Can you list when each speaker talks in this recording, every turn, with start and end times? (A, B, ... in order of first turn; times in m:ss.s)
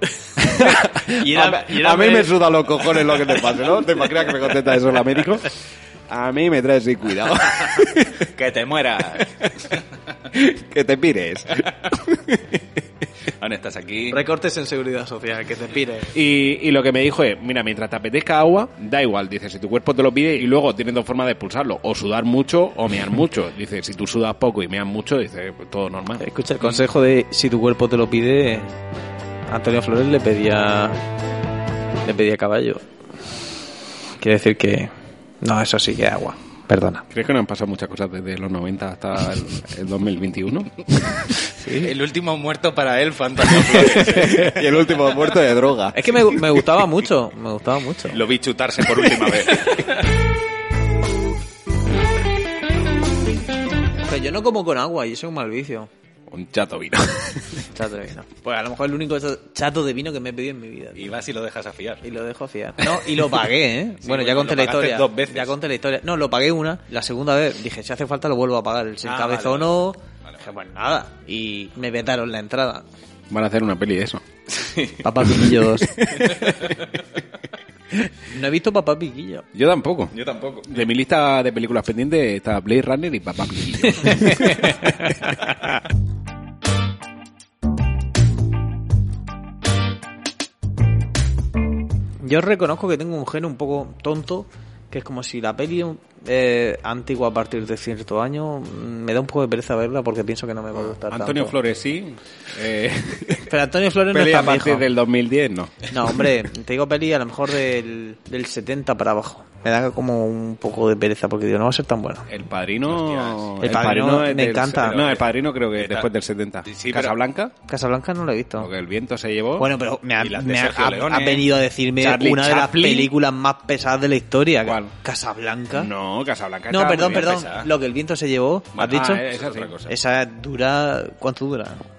0:00.4-0:03.5 A
0:00.4-0:08.3 B
0:08.2-0:09.8 C
0:09.2-0:09.5 B
0:10.3-0:12.8 B
0:13.4-0:14.2 C
0:14.1-0:16.1 A
0:16.1-0:26.2 B
0:26.2-0:28.7 A
0:29.5-0:31.0 A
0:32.0-0:32.8 A
0:34.2-0:37.0 A
0:37.1-0:41.2 B
0:41.5-0:41.9 A
0:41.7-0:45.5 C
0:43.9-0:44.4 A
0:44.2-0:46.0 B
0:45.9-0:48.2 A
0:48.1-0:49.9 C
0:49.5-0:49.9 A
0:54.0-0:55.9 A
0:56.3-0:57.7 B
0:57.7-1:01.1 A
1:01.0-1:02.0 C
1:02.0-1:12.8 A
1:04.0-1:05.5 C
1:09.0-1:10.4 C
1:13.3-1:14.2 B
1:14.5-1:15.0 C
1:15.0-1:16.3 A
1:16.0-1:16.6 B
1:16.2-1:16.9 C
1:18.2-1:19.4 A
1:19.5-1:20.1 B
1:20.1-1:20.8 C
1:20.7-1:24.9 B
1:23.9-1:25.6 A
1:32.2-1:41.6 A
1:40.9-1:43.5 B
1:43.5-1:44.9 A
1:44.1-1:46.2 B
1:45.9-1:52.3 A
1:52.3-1:57.5 B
1:52.9-1:53.5 C
1:53.6-1:55.1 A
1:54.8-1:55.2 C
1:55.8-1:56.1 C
1:56.6-1:57.2 C
1:57.7-1:58.7 A
1:58.6-1:59.7 B
1:59.6-2:05.9 A
2:00.2-2:01.5 C
2:02.0-2:03.1 B
2:04.6-2:04.9 B
2:05.7-2:07.3 B
2:06.7-2:09.2 A
2:07.0-2:07.7 C
2:08.7-2:09.9 C
2:08.9-2:09.7 B
2:09.8-2:11.8 A